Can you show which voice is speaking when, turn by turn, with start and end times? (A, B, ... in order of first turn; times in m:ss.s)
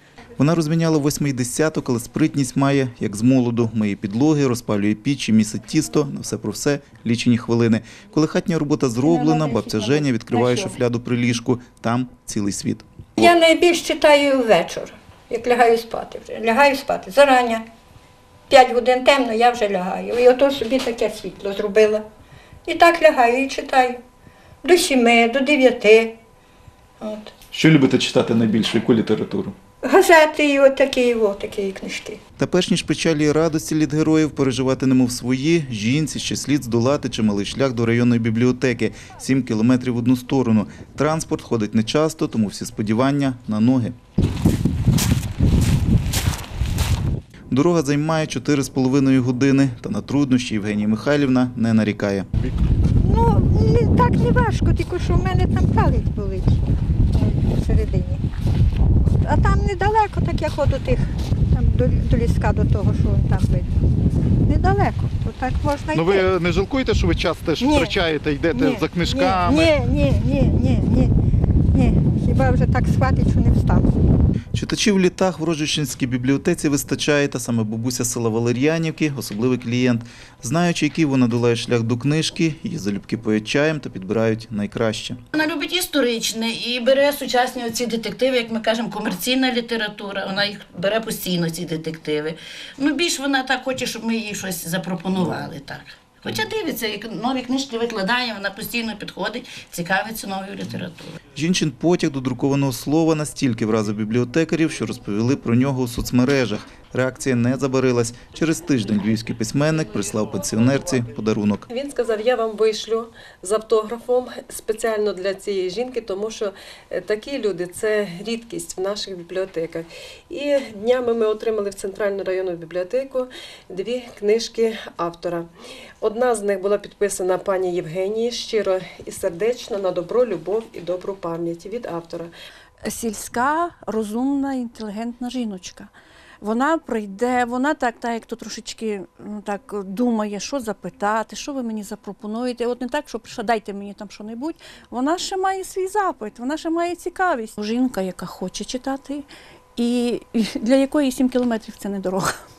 0:00.4-0:13.3 A
0:09.0-0:10.8 B
0:13.2-0:17.6 B
0:18.5-0:22.0 B
0:22.7-0:24.0 B
0:24.6-0:26.2 B
0:27.0-0:27.3 B
0:27.5-0:29.6 A
0:29.8-0:32.2 B
0:32.4-0:43.9 A
0:47.5-0:52.2 A
0:53.0-0:58.2 B
0:59.2-1:03.7 B
1:04.4-1:06.3 B
1:05.9-1:09.8 C
1:07.6-1:08.0 B
1:08.5-1:11.1 B
1:11.7-1:13.9 B
1:14.5-1:25.2 A
1:25.3-1:41.2 D
1:41.3-1:51.6 A
1:51.7-2:05.5 E
2:06.0-2:12.3 E
2:12.8-2:15.9 F
2:16.4-2:29.2 F
2:29.8-2:32.3 F